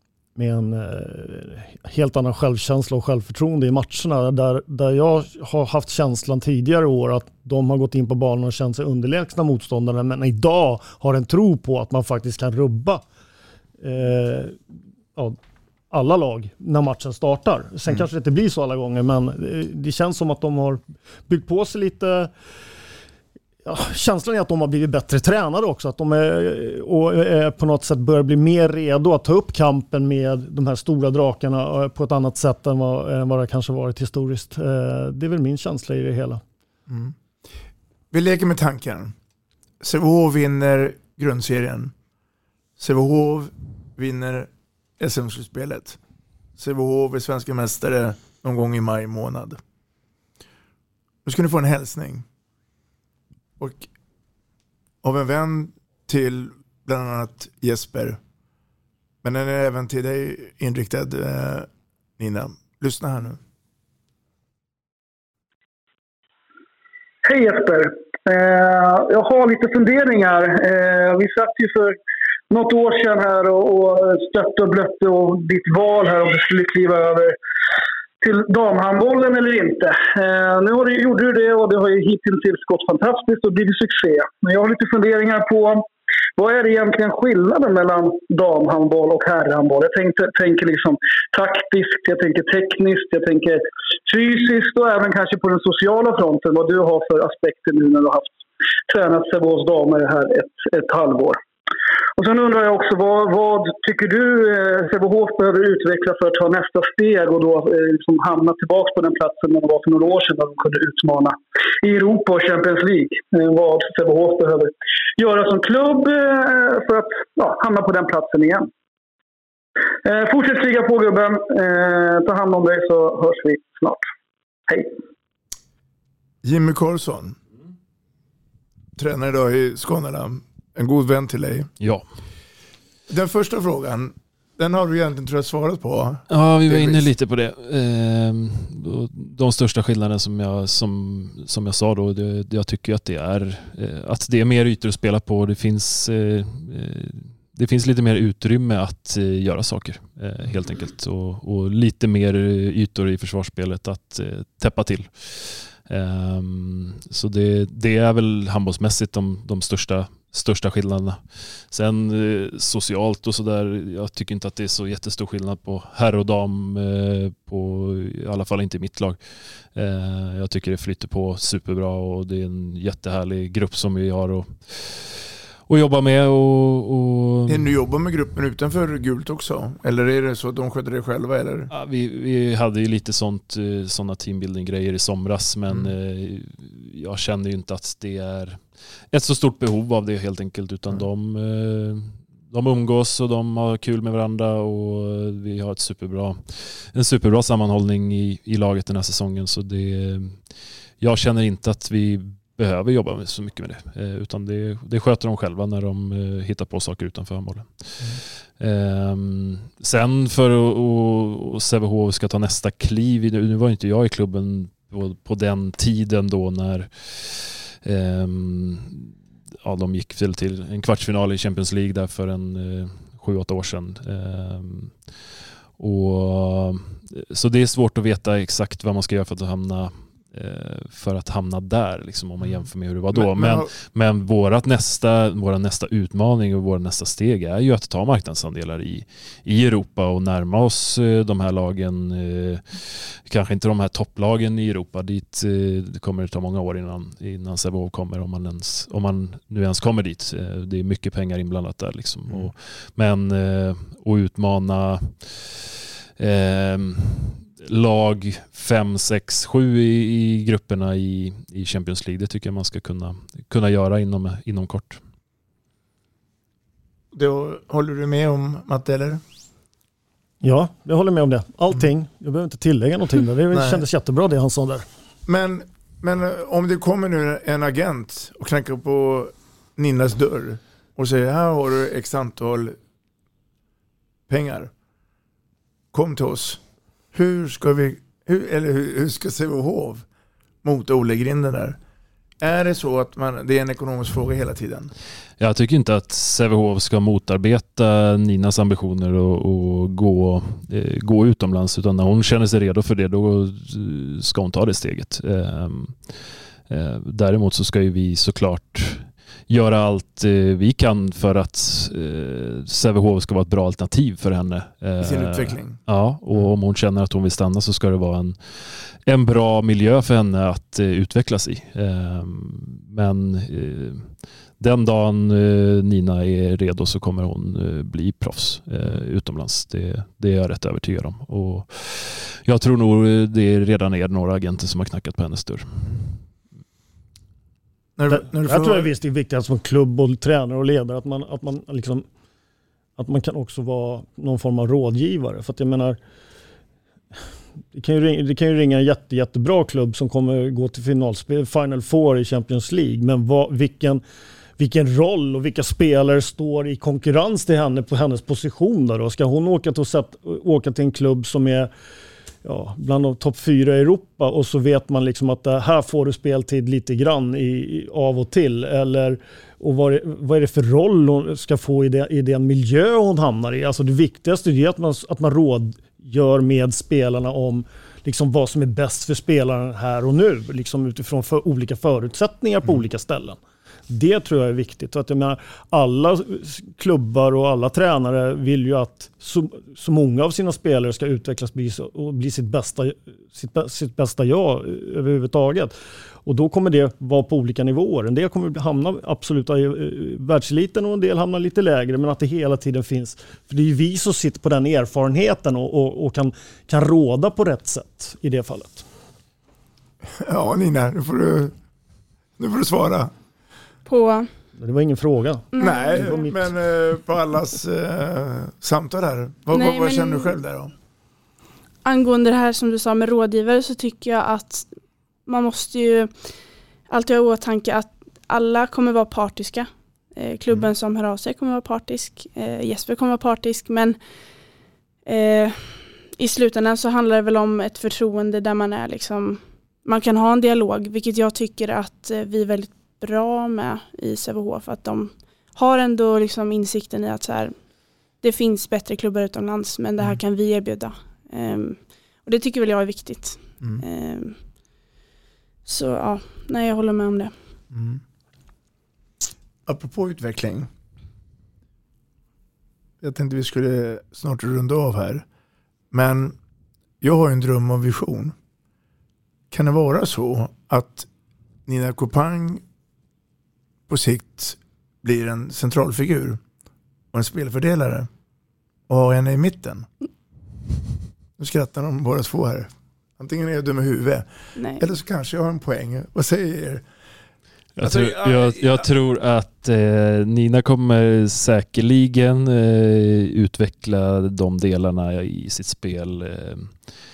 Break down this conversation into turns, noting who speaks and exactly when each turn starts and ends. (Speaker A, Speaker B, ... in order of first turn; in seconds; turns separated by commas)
Speaker A: 0.4-13.1, Speaker A: 13.8-14.6, Speaker A: 15.9-22.3, Speaker A: 23.6-36.4, Speaker B: 36.9-37.1, Speaker B: 38.1-39.1, Speaker B: 39.8-41.9, Speaker B: 42.8-46.0, Speaker B: 46.6-49.6, Speaker B: 51.2-52.2, Speaker B: 53.6-53.9, Speaker B: 55.0-58.2, Speaker B: 59.2-63.4, Speaker C: 67.2-72.0, Speaker C: 72.5-77.4, Speaker C: 78.2-85.8, Speaker C: 86.4-101.4, Speaker C: 102.2-118.7, Speaker C: 120.0-124.0, Speaker C: 124.7-125.0, Speaker B: 126.4-127.4, Speaker B: 129.0-131.7, Speaker B: 133.1-137.1, Speaker D: 136.3-169.2, Speaker D: 169.7-177.7, Speaker B: 177.5-181.7, Speaker D: 181.7-200.4, Speaker D: 201.0-219.1, Speaker D: 219.6-224.9, Speaker D: 225.8-265.0, Speaker B: 232.4-233.7, Speaker B: 267.1-269.2, Speaker A: 270.4-274.9, Speaker B: 273.5-273.8, Speaker B: 275.3-282.8, Speaker B: 284.3-284.7, Speaker B: 285.9-286.6, Speaker B: 287.1-290.1, Speaker B: 290.6-291.8, Speaker B: 292.4-294.9, Speaker D: 295.4-336.1, Speaker B: 315.0-315.8, Speaker B: 338.0-338.9, Speaker A: 338.1-342.1, Speaker A: 343.0-346.0, Speaker A: 347.7-354.0, Speaker A: 354.6-361.7, Speaker A: 362.4-383.4, Speaker A: 383.9-395.7, Speaker A: 396.2-408.9, Speaker B: 410.1-411.6, Speaker B: 412.4-413.1, Speaker E: 413.9-414.3, Speaker A: 414.6-416.4, Speaker E: 415.6-416.2, Speaker B: 415.6-420.7, Speaker E: 419.5-420.4, Speaker E: 421.9-424.7, Speaker E: 425.3-426.1, Speaker E: 426.9-434.0, Speaker E: 435.1-447.6, Speaker E: 448.2-454.4, Speaker E: 455.7-457.3, Speaker B: 457.7-458.0, Speaker B: 459.7-460.7, Speaker B: 463.0-465.2, Speaker B: 465.9-466.4, Speaker B: 467.0-468.4, Speaker B: 469.5-471.1, Speaker B: 471.7-472.6, Speaker B: 473.9-476.4, Speaker B: 477.1-478.1, Speaker B: 478.9-479.9, Speaker B: 481.4-486.9, Speaker E: 484.6-484.8, Speaker D: 487.8-496.9, Speaker B: 487.8-488.9